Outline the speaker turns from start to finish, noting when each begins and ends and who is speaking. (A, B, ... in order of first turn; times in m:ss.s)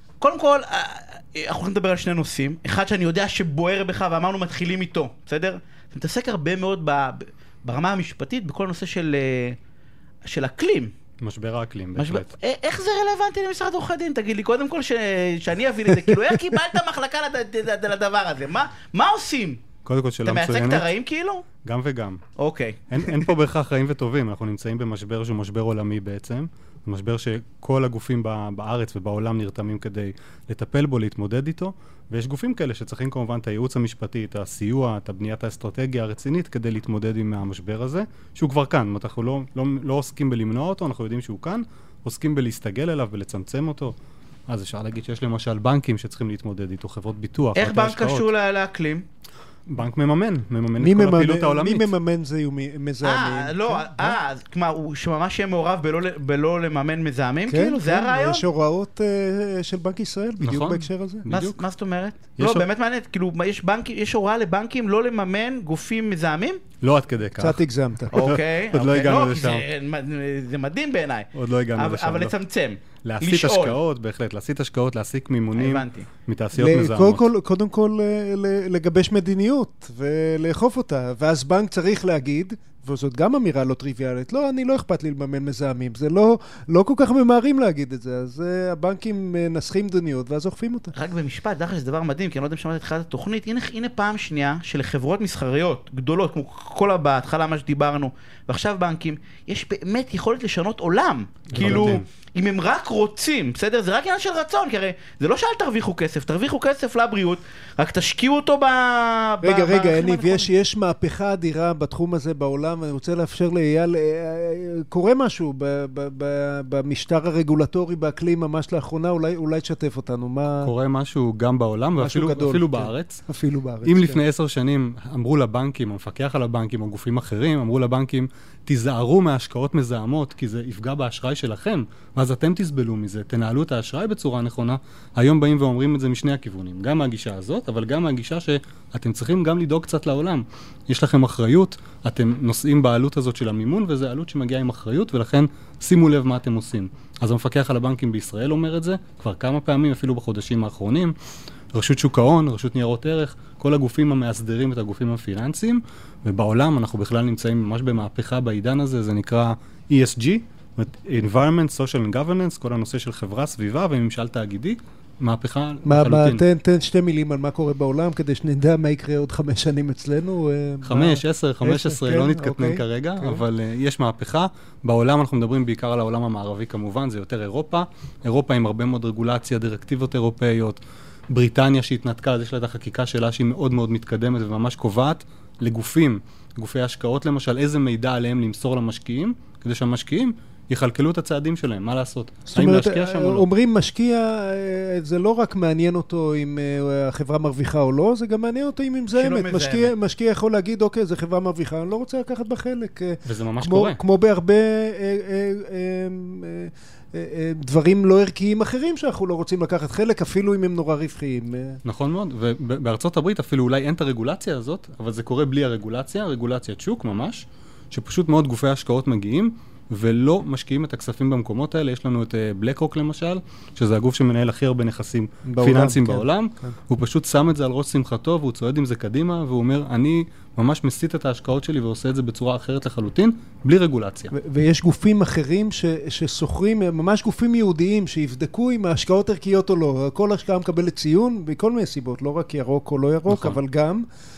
0:00.2-0:09.6 A
0:10.2-0:10.9 A
0:11.2-0:12.3 B
0:12.0-0:19.6 A
0:19.8-0:20.9 B
0:20.2-0:21.5 A
0:21.6-0:22.2 B
0:22.4-0:23.3 A
0:22.9-0:43.9 B
0:44.5-0:48.3 B
0:47.6-0:49.0 A
0:49.7-0:51.9 B
0:50.8-0:54.2 C
0:53.0-0:58.4 A
0:57.5-1:01.3 C
1:00.4-1:01.6 B
1:01.3-1:06.6 A
1:02.4-1:02.7 B
1:06.8-1:09.6 B
1:07.4-1:08.2 C
1:08.1-1:13.8 A
1:11.3-1:12.3 B
1:13.0-1:17.3 B
1:15.6-1:16.1 A
1:16.6-1:30.9 C
1:30.9-1:50.5 A
1:41.5-1:42.0 B
1:49.4-2:00.7 C
2:00.6-2:03.2 B
2:02.0-2:04.2 C
2:03.8-2:31.2 B
2:31.7-2:46.4 B
2:45.8-2:53.4 C
2:50.8-3:13.5 B
3:12.5-3:31.8 C
3:19.1-3:19.9 A
3:23.3-3:24.0 B
3:31.8-3:54.3 B
3:45.5-3:46.7 C
3:54.3-4:04.0 C
4:03.3-4:03.6 B